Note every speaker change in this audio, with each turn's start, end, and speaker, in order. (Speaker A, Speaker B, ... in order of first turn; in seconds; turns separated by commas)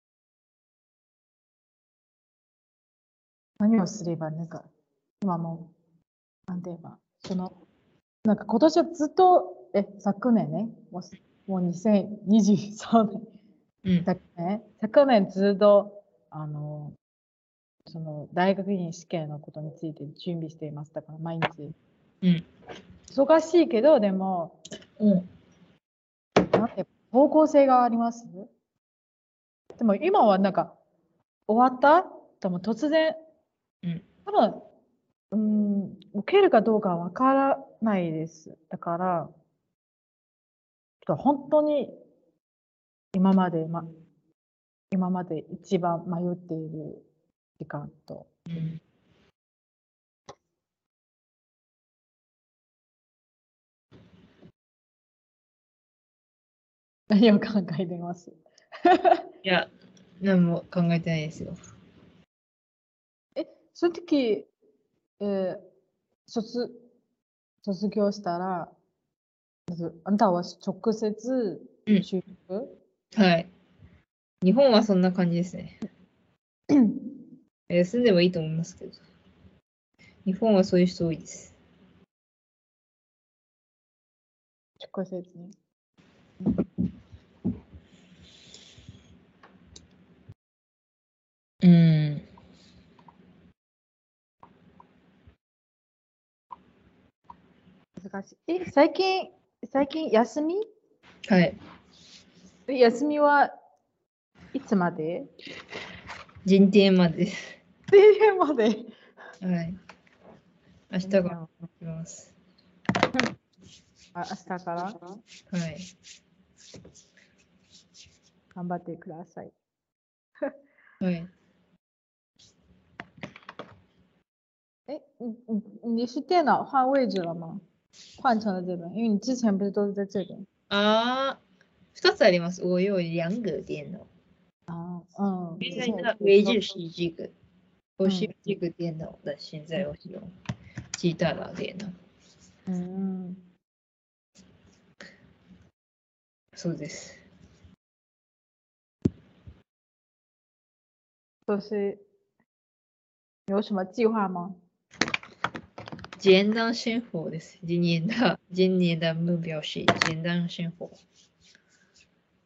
Speaker A: 3.6-4.7, Speaker A: 5.2-5.7, Speaker A: 6.5-7.6, Speaker A: 8.2-13.3, Speaker A: 14.1-17.0, Speaker A: 17.9-21.8, Speaker A: 23.1-24.6, Speaker B: 25.0-25.3, Speaker A: 26.4-28.5, Speaker A: 29.8-30.8, Speaker A: 31.5-33.2, Speaker A: 34.3-34.7, Speaker A: 35.3-39.3, Speaker A: 41.0-42.0, Speaker A: 43.1-43.9, Speaker A: 44.9-47.1, Speaker A: 47.6-48.3, Speaker B: 48.5-48.8, Speaker A: 57.1-59.2, Speaker B: 59.4-59.7, Speaker B: 60.2-61.6, Speaker A: 63.4-64.5, Speaker A: 65.2-65.6, Speaker A: 66.3-66.8, Speaker A: 67.6-68.7, Speaker A: 69.7-72.8, Speaker B: 73.1-73.5, Speaker B: 74.4-75.8, Speaker A: 76.7-77.2, Speaker B: 77.7-79.0, Speaker B: 80.2-81.5, Speaker A: 84.8-85.5, Speaker B: 91.6-92.3, Speaker A: 98.0-100.6, Speaker B: 101.3-101.6, Speaker A: 102.7-103.5, Speaker A: 104.5-105.3, Speaker B: 106.5-107.5, Speaker A: 107.9-108.9, Speaker B: 109.4-109.8, Speaker B: 110.9-112.3, Speaker A: 111.0-111.5, Speaker A: 114.2-115.0, Speaker B: 115.5-115.9, Speaker A: 118.5-119.5, Speaker B: 121.0-121.3, Speaker A: 124.9-127.6, Speaker A: 128.2-130.5, Speaker B: 130.7-131.4, Speaker B: 131.9-134.1, Speaker A: 134.7-136.7, Speaker B: 135.6-137.3, Speaker B: 138.0-140.3, Speaker A: 138.1-138.3, Speaker B: 141.0-141.9, Speaker A: 142.7-143.4, Speaker B: 146.6-147.2, Speaker A: 151.5-152.0, Speaker A: 153.5-154.6, Speaker B: 156.2-161.0